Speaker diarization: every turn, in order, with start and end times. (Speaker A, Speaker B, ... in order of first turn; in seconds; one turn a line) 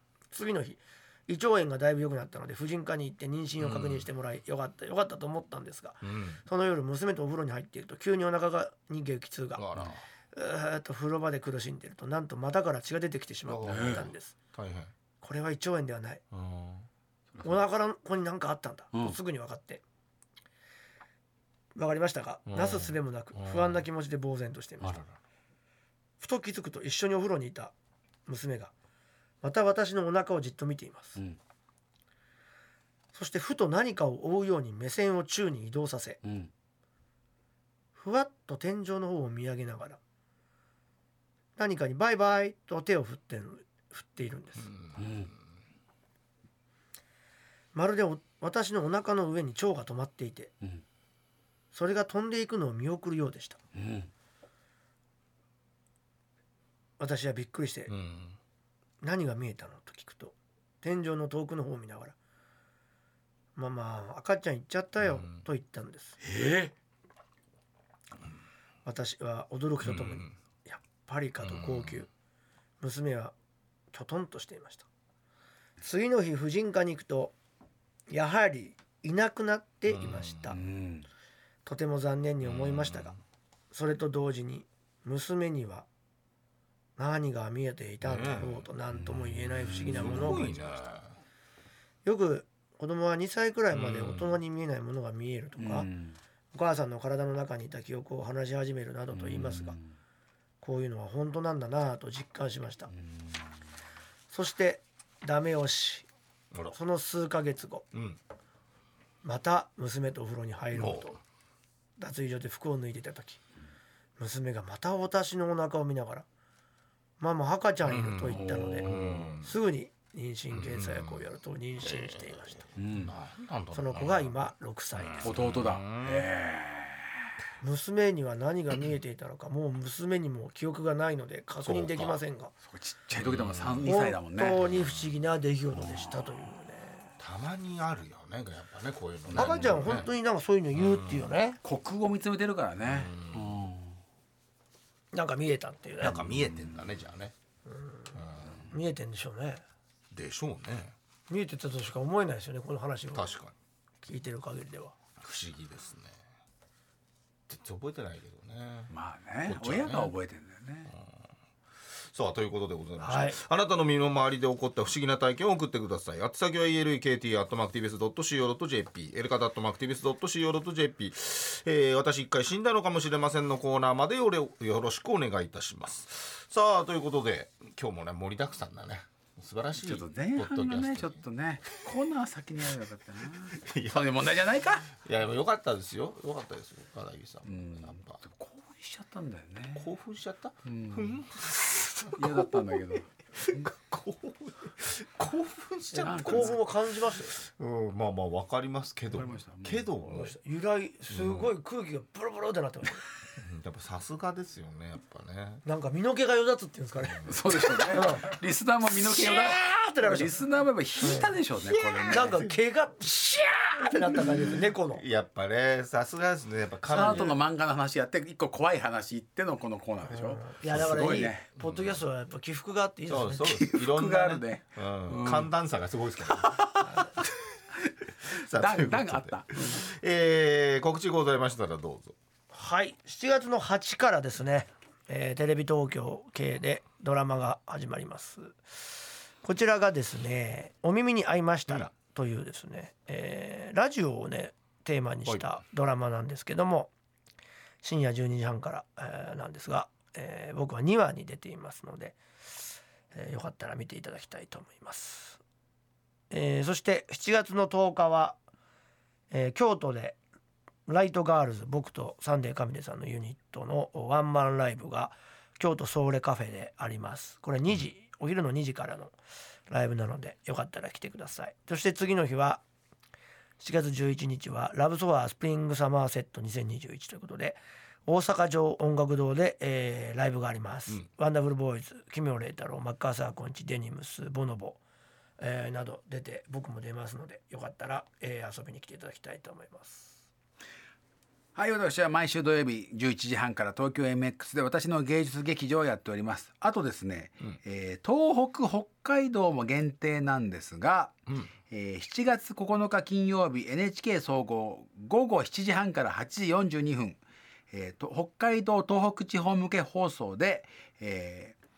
Speaker A: 0.3-9.7
Speaker B: 3.6-4.1
Speaker B: 6.0-6.4
Speaker B: 9.6-10.0
Speaker A: 10.3-14.3
Speaker B: 13.5-14.9
Speaker C: 13.6-14.1
Speaker A: 15.2-16.2
Speaker B: 16.3-16.9
Speaker A: 17.4-19.8
Speaker A: 21.8-25.0
Speaker B: 22.5-23.8
Speaker B: 24.8-25.1
Speaker A: 26.2-27.7
Speaker A: 28.3-28.7
Speaker A: 29.4-31.2
Speaker A: 33.1-36.2
Speaker C: 36.2-36.5
Speaker A: 38.0-40.0
Speaker A: 41.6-44.7
Speaker B: 44.6-45.3
Speaker C: 45.0-45.3
Speaker A: 47.7-50.5
Speaker A: 51.7-53.6
Speaker C: 53.8-54.1
Speaker A: 57.0-57.9
Speaker B: 57.9-58.4
Speaker A: 59.0-62.1
Speaker A: 63.6-66.2
Speaker B: 65.0-65.5
Speaker C: 66.2-66.7
Speaker A: 68.8-72.1
Speaker B: 69.8-70.3
Speaker B: 71.4-72.1
Speaker A: 72.8-73.3
Speaker A: 73.9-74.9
Speaker A: 75.8-77.3
Speaker A: 78.1-80.6
Speaker B: 79.9-80.5
Speaker C: 80.5-81.1
Speaker A: 81.7-83.2
Speaker B: 82.4-83.2
Speaker A: 83.7-85.9
Speaker A: 87.0-90.5
Speaker B: 88.0-88.7
Speaker C: 88.9-90.5
Speaker B: 89.9-91.1
Speaker A: 92.0-95.9
Speaker B: 93.7-94.4
Speaker C: 95.6-96.2
Speaker A: 96.5-99.8
Speaker C: 99.1-99.9
Speaker A: 100.6-102.9
Speaker C: 103.0-103.5
Speaker A: 104.3-106.1
Speaker A: 106.7-107.9
Speaker B: 107.9-108.2
Speaker A: 109.2-111.2
Speaker B: 110.7-111.2
Speaker A: 112.0-113.4
Speaker A: 114.2-116.3
Speaker A: 117.2-122.7
Speaker B: 117.8-119.5
Speaker C: 118.3-119.3
Speaker B: 120.5-126.3
Speaker C: 122.8-123.2
Speaker A: 123.7-125.3
Speaker C: 125.2-127.1
Speaker A: 127.6-132.5
Speaker B: 131.6-132.2
Speaker C: 132.6-134.6
Speaker B: 133.2-133.9
Speaker A: 133.8-137.1
Speaker B: 134.6-135.0
Speaker B: 137.2-140.1
Speaker C: 139.3-140.0
Speaker A: 139.4-141.6
Speaker B: 140.7-141.3
Speaker C: 141.6-144.0
Speaker B: 142.8-143.6
Speaker A: 145.1-146.2
Speaker B: 146.0-147.3
Speaker C: 146.2-146.8
Speaker A: 147.7-149.6
Speaker B: 148.2-148.7
Speaker B: 150.1-150.9
Speaker A: 151.3-153.3
Speaker B: 153.1-153.5
Speaker A: 154.0-154.9
Speaker B: 155.2-156.2
Speaker B: 157.5-158.9
Speaker C: 158.9-160.9
Speaker B: 159.4-160.1
Speaker B: 160.9-161.2
Speaker B: 161.9-181.2
Speaker A: 163.0-163.4
Speaker C: 179.8-184.9
Speaker B: 183.5-184.3
Speaker B: 185.0-188.2
Speaker C: 187.5-189.9
Speaker B: 189.8-196.6
Speaker C: 190.7-191.2
Speaker C: 192.1-193.1
Speaker A: 195.9-197.4
Speaker C: 196.0-196.6
Speaker B: 197.2-200.4
Speaker C: 199.1-199.9
Speaker A: 200.1-203.0
Speaker B: 201.1-201.5
Speaker B: 203.4-205.6
Speaker A: 205.7-207.3
Speaker B: 207.0-208.0
Speaker C: 207.2-212.5
Speaker A: 207.9-208.3
Speaker A: 209.1-210.4
Speaker A: 211.0-211.4
Speaker A: 212.0-215.0
Speaker B: 214.9-217.4
Speaker A: 216.9-217.4
Speaker C: 216.9-221.5
Speaker A: 220.1-223.5
Speaker B: 221.6-222.0
Speaker B: 223.1-227.3
Speaker C: 223.4-225.5
Speaker C: 226.2-227.1
Speaker C: 227.8-229.8
Speaker B: 228.3-232.2
Speaker A: 232.5-238.8
Speaker A: 239.4-246.9
Speaker B: 245.3-245.6
Speaker A: 247.8-255.4
Speaker A: 256.3-258.4
Speaker A: 259.3-260.2
Speaker A: 260.9-269.1
Speaker A: 269.7-272.6
Speaker A: 273.6-284.8
Speaker A: 285.4-290.2
Speaker C: 291.6-301.2
Speaker C: 301.7-307.2
Speaker C: 307.7-311.6